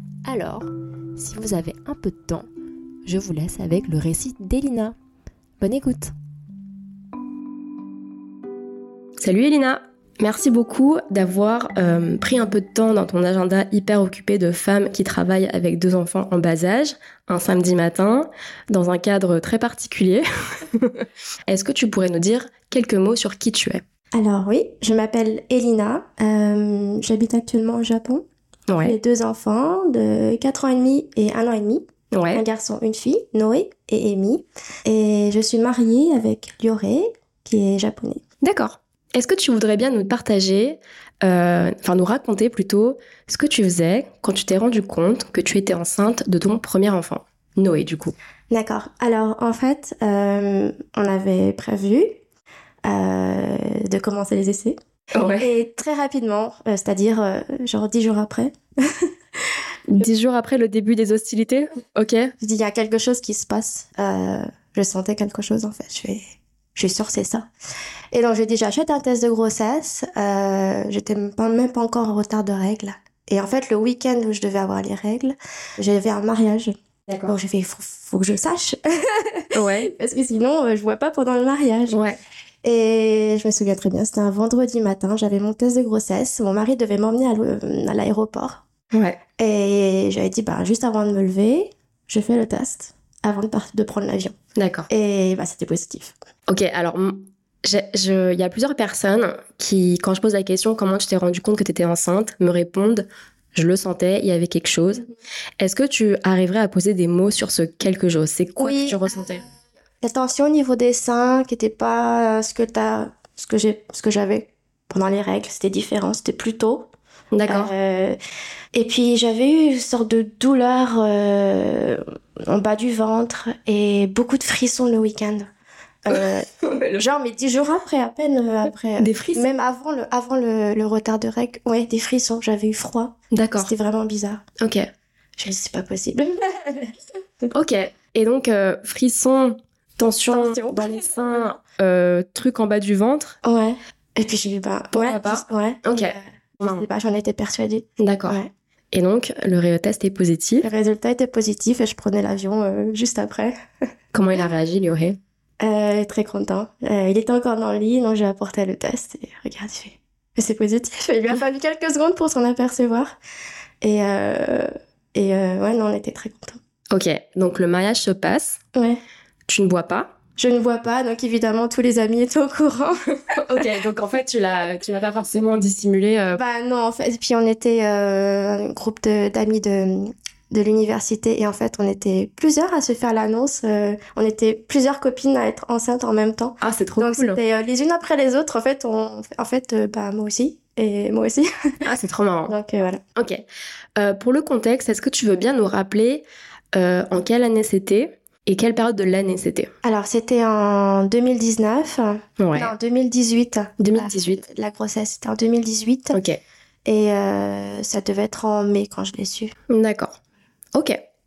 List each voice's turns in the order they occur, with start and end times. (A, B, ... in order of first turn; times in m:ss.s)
0:00.2-0:02.5 A
0:03.0-0:05.0 A
0:05.6-0:06.1 A
0:09.2-0:23.8 B
0:24.1-0:28.2 C
0:28.7-0:29.0 B
0:28.8-0:38.2 C
0:32.1-0:32.4 B
0:38.4-0:48.1 B
0:48.5-0:52.2 C
0:52.8-0:54.8 C
0:55.1-0:55.5 B
0:55.4-0:59.1 C
0:59.9-1:02.3 B
1:02.4-1:06.2 C
1:06.8-1:07.5 C
1:08.1-1:16.7 C
1:17.1-1:17.3 B
1:17.2-1:22.0 C
1:19.5-1:19.9 B
1:21.9-1:22.2 B
1:22.6-1:28.6 C
1:28.9-1:29.2 B
1:29.4-1:34.4 C
1:34.6-1:34.9 B
1:34.9-1:36.1 C
1:36.5-1:45.0 B
1:45.6-1:49.4 B
1:48.6-1:49.2 C
1:50.0-1:56.9 C
1:57.3-1:57.7 B
1:57.5-1:58.2 C
1:58.7-2:05.5 C
2:06.0-2:14.4 C
2:06.1-2:07.0 B
2:09.0-2:09.4 B
2:13.3-2:13.7 B
2:14.6-2:14.9 B
2:15.4-2:16.9 C
2:17.5-2:23.4 B
2:20.3-2:21.1 C
2:23.4-2:28.5 C
2:24.9-2:26.8 B
2:28.0-2:28.4 B
2:28.9-2:30.7 B
2:30.6-2:33.6 C
2:34.1-2:35.2 B
2:35.6-2:43.1 C
2:43.8-2:46.6 C
2:46.9-2:48.6 B
2:48.8-2:49.0 C
2:49.5-2:50.2 B
2:50.4-2:53.1 C
2:53.3-2:56.4 B
2:56.3-3:11.5 C
3:06.6-3:07.4 B
3:11.8-3:12.6 B
3:12.5-3:13.0 C
3:13.2-3:13.4 B
3:14.0-3:19.7 B
3:19.8-3:26.2 C
3:22.4-3:22.7 B
3:23.8-3:24.4 B
3:26.1-3:26.4 B
3:26.8-3:29.5 C
3:29.7-3:30.2 B
3:30.8-3:31.0 B